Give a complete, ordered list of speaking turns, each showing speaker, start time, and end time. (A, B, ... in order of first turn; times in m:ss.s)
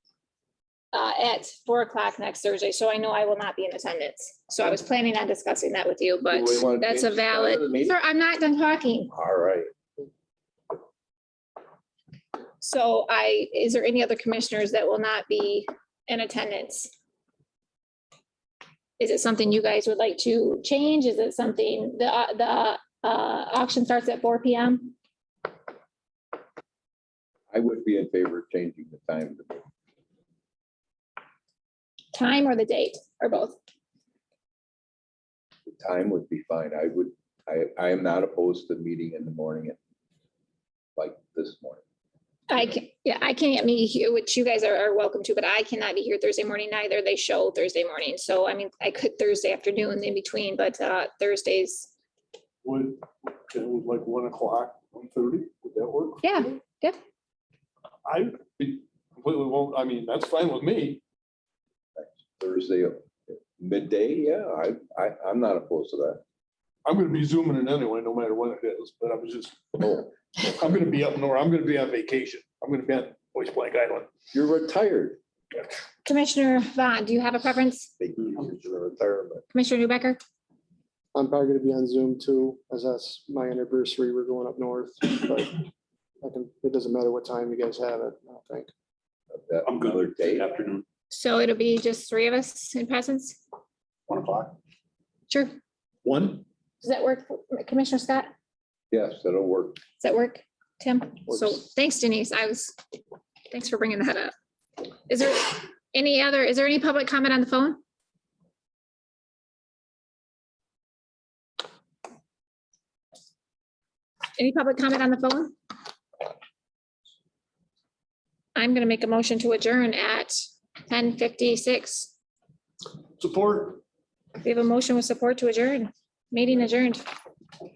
0:00.9-0:09.1 A
0:06.3-0:08.0 B
0:09.1-0:09.7 B
0:12.6-0:16.9 A
0:19.0-0:24.9 A
0:27.5-0:29.6 B
0:32.1-0:33.6 A
0:35.6-0:39.8 B
0:41.0-0:41.8 B
0:42.5-0:51.9 A
0:52.6-0:56.2 C
0:56.2-0:57.0 A
0:58.0-1:01.0 C
1:02.0-1:06.2 B
1:06.8-1:14.1 C
1:14.3-1:15.2 B
1:16.0-1:17.9 A
1:18.0-1:19.4 B
1:19.5-1:20.2 A
1:21.1-1:25.7 D
1:26.2-1:28.7 D
1:29.3-1:30.7 B
1:31.1-1:33.4 A
1:34.1-1:34.6 C
1:35.3-1:35.5 A
1:36.0-1:36.4 C
1:36.8-1:38.3 A
1:38.9-1:39.8 B
1:40.0-1:42.7 A
1:43.5-1:44.3 A
1:45.1-1:47.8 A
1:54.4-1:55.5 A
1:58.5-2:02.1 A
2:03.2-2:03.8 C
2:04.4-2:07.0 A